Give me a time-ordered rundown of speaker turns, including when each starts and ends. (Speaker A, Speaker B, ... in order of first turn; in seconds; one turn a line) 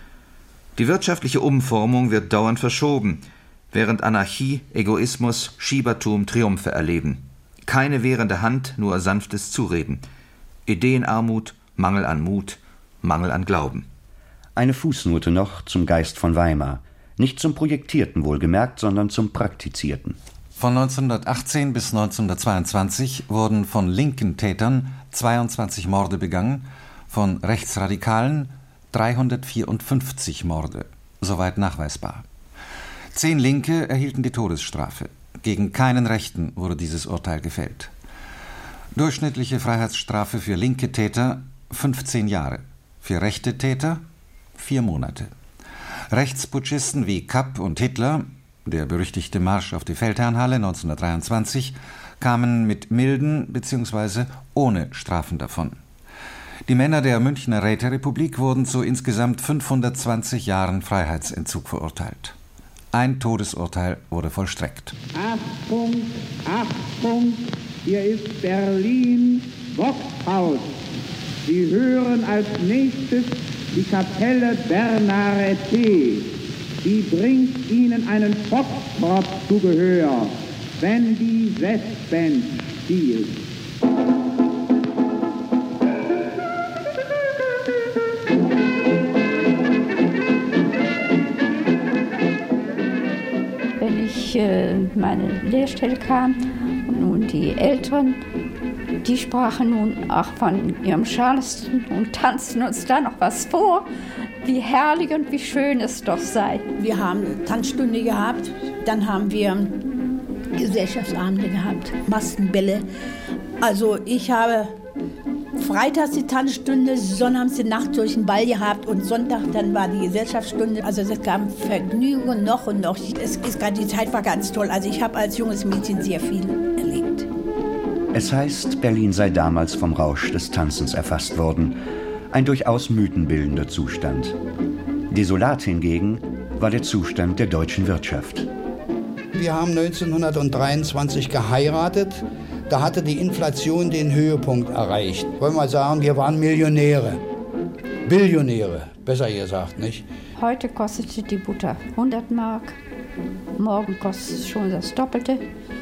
Speaker A: 0.8-10.0
Speaker A: 10.7-13.9
Speaker B: 14.6-20.2
Speaker C: 20.6-32.2
Speaker C: 33.1-37.9
Speaker C: 39.0-44.0
Speaker C: 44.6-45.3
Speaker C: 46.1-55.8
Speaker C: 56.7-62.4
Speaker C: 62.9-65.0
Speaker D: 65.1-70.8
Speaker D: 71.5-83.5
Speaker E: 93.8-98.2
Speaker E: 99.0-103.9
Speaker E: 104.4-106.7
Speaker F: 106.8-109.9
Speaker F: 110.5-112.9
Speaker F: 113.6-114.8
Speaker F: 115.6-127.3
Speaker B: 128.1-134.4
Speaker B: 135.1-138.5
Speaker G: 139.3-147.2
Speaker G: 148.1-150.1
Speaker E: 150.4-152.8
Speaker E: 153.6-155.4